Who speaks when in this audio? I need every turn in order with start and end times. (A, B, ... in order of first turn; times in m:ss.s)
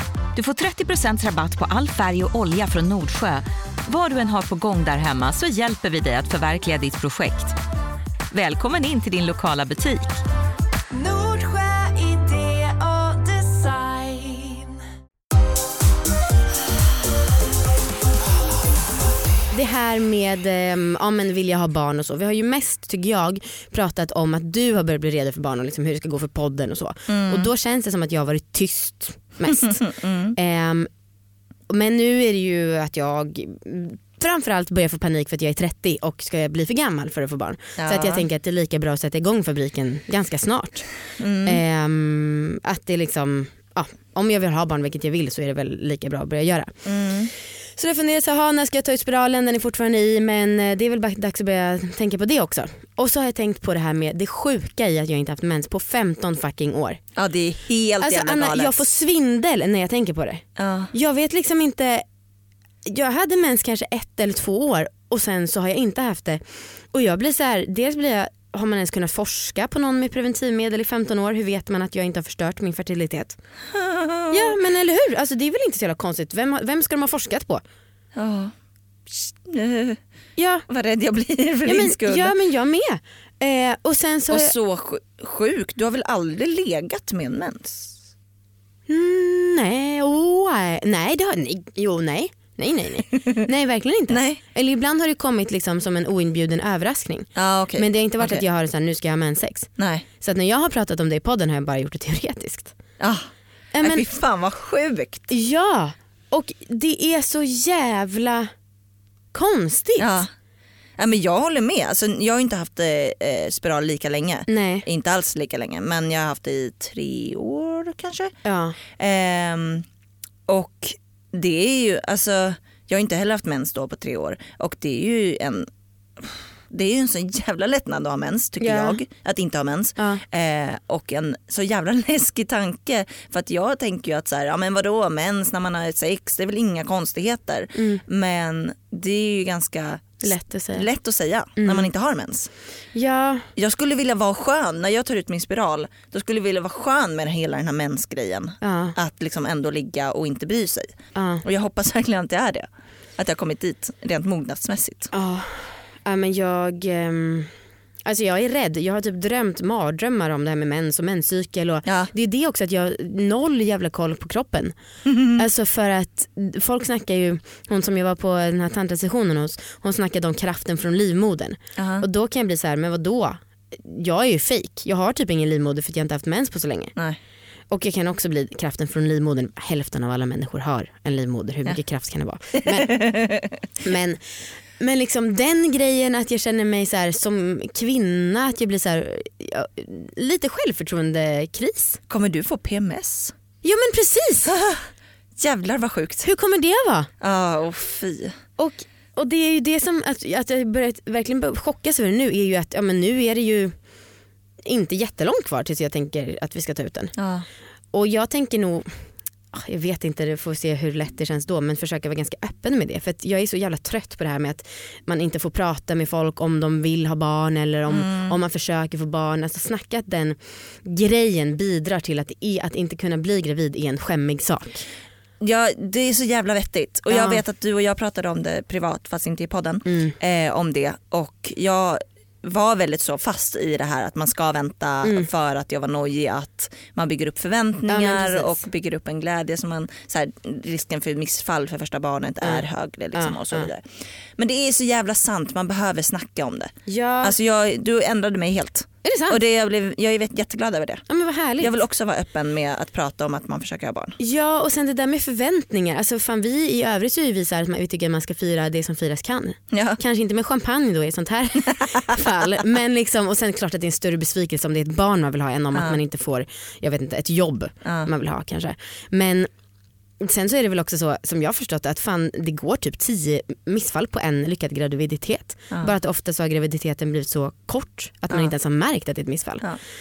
0:00.4-0:07.6 A
0:08.3-0:10.2 A
0:10.9-0:14.8 A
0:19.5-0:29.8 B
0:27.1-0:27.5 C
0:29.5-0:30.4 C
0:30.4-0:30.9 B
0:31.7-0:40.9 B
0:37.8-0:38.2 C
0:41.2-0:41.6 C
0:41.4-0:46.8 B
0:46.8-0:47.3 C
0:47.8-0:57.0 B
0:57.2-0:58.8 C
0:58.0-1:02.0 B
1:00.6-1:00.9 C
1:02.8-1:13.4 B
1:13.7-1:14.6 C
1:14.3-1:17.6 B
1:18.1-1:18.5 C
1:19.1-1:20.0 C
1:20.4-1:20.7 B
1:20.7-1:22.3 C
1:21.7-1:24.5 B
1:24.3-1:28.0 C
1:28.9-1:42.8 B
1:34.1-1:34.4 C
1:37.4-1:38.4 C
1:39.8-1:40.0 C
1:43.0-1:45.3 C
1:43.7-1:44.0 B
1:45.3-1:48.5 B
1:49.3-1:50.2 B
1:50.0-1:50.3 C
1:51.0-1:58.4 C
1:54.5-1:54.8 B
1:58.4-1:58.8 B
1:58.9-1:59.9 C
2:00.5-2:22.5 C
2:08.6-2:09.0 B
2:17.8-2:18.0 B
2:20.2-2:20.9 B
2:21.6-2:21.9 B
2:22.9-2:23.5 B
2:23.6-2:35.1 C
2:28.6-2:29.0 B
2:31.2-2:31.4 B
2:35.1-2:37.5 B
2:38.0-2:44.8 B
2:41.8-2:42.1 C
2:45.0-2:45.4 C
2:45.3-2:56.9 B
2:51.8-2:52.0 C
2:57.7-3:03.0 B
3:02.6-3:03.6 C
3:03.8-3:12.0 B
3:12.1-3:13.3 C
3:13.6-3:14.6 B
3:14.5-3:14.8 C
3:15.4-3:16.3 C
3:16.2-3:17.1 B
3:17.2-3:18.4 C
3:18.6-3:23.8 B
3:24.6-3:27.2 B
3:27.2-3:27.5 C
3:27.9-3:44.9 B
3:37.9-3:38.4 C
3:45.4-4:11.1 C
3:47.1-3:47.4 B
3:49.9-3:50.2 B
3:55.0-3:55.3 B
3:57.9-3:58.6 B
4:03.1-4:03.7 B
4:06.9-4:07.3 B
4:09.0-4:09.4 B
4:11.1-4:11.7 B
4:11.6-4:14.2 C
4:14.2-4:29.5 B
4:19.7-4:20.0 C
4:25.7-4:26.0 C
4:27.8-4:28.1 C
4:30.2-4:39.7 B